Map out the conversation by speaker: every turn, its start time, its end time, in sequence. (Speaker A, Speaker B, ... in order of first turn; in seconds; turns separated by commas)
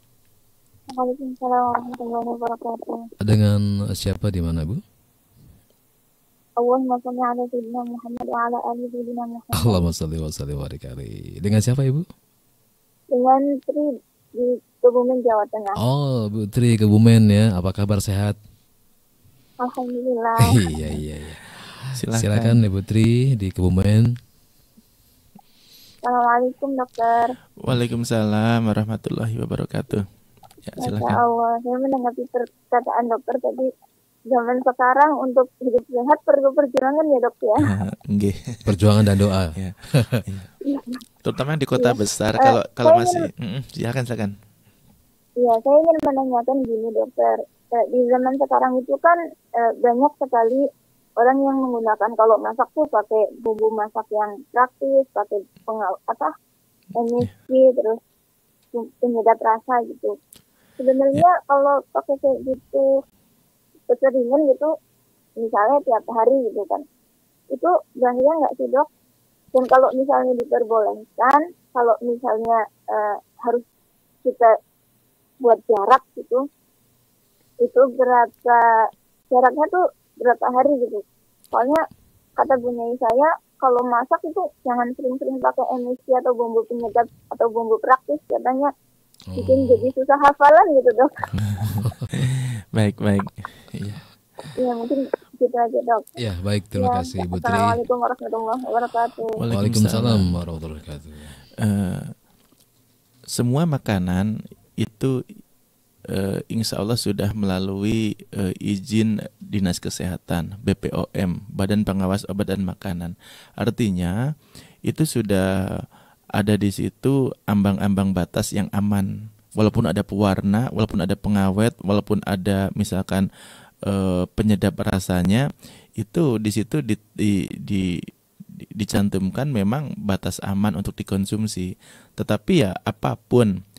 Speaker A: 0.9-3.0, Speaker B: 3.2-4.8, Speaker A: 6.6-9.8, Speaker B: 9.5-12.1, Speaker A: 13.1-13.9, Speaker A: 14.4-15.8, Speaker B: 15.8-18.4, Speaker A: 19.6-20.7, Speaker B: 20.5-24.1, Speaker C: 21.9-22.6, Speaker A: 26.1-27.3, Speaker C: 27.6-30.1, Speaker C: 30.7-31.2, Speaker A: 30.8-33.7, Speaker A: 34.3-37.6, Speaker C: 37.6-38.6, Speaker B: 38.7-40.2, Speaker C: 39.6-40.5, Speaker A: 40.7-41.0, Speaker C: 41.2-44.3, Speaker A: 41.8-43.3, Speaker A: 45.4-49.2, Speaker A: 49.8-50.6, Speaker A: 51.2-56.3, Speaker A: 57.0-58.0, Speaker A: 58.7-60.1, Speaker A: 60.8-62.8, Speaker A: 63.9-64.7, Speaker A: 65.4-66.8, Speaker A: 67.5-68.9, Speaker A: 69.5-73.6, Speaker A: 74.2-74.5, Speaker A: 75.4-76.4, Speaker A: 77.6-78.6, Speaker A: 79.3-81.8, Speaker A: 82.4-88.7, Speaker B: 89.3-89.9, Speaker A: 89.4-91.1, Speaker C: 91.4-94.0, Speaker A: 94.6-96.1, Speaker B: 96.2-97.8, Speaker A: 96.8-99.3, Speaker C: 99.4-100.4, Speaker B: 99.5-101.4, Speaker C: 101.6-102.1, Speaker C: 103.3-105.1, Speaker C: 106.1-114.2, Speaker C: 114.9-115.8, Speaker C: 116.4-123.3, Speaker C: 123.9-125.5, Speaker C: 126.0-128.0, Speaker C: 128.8-133.5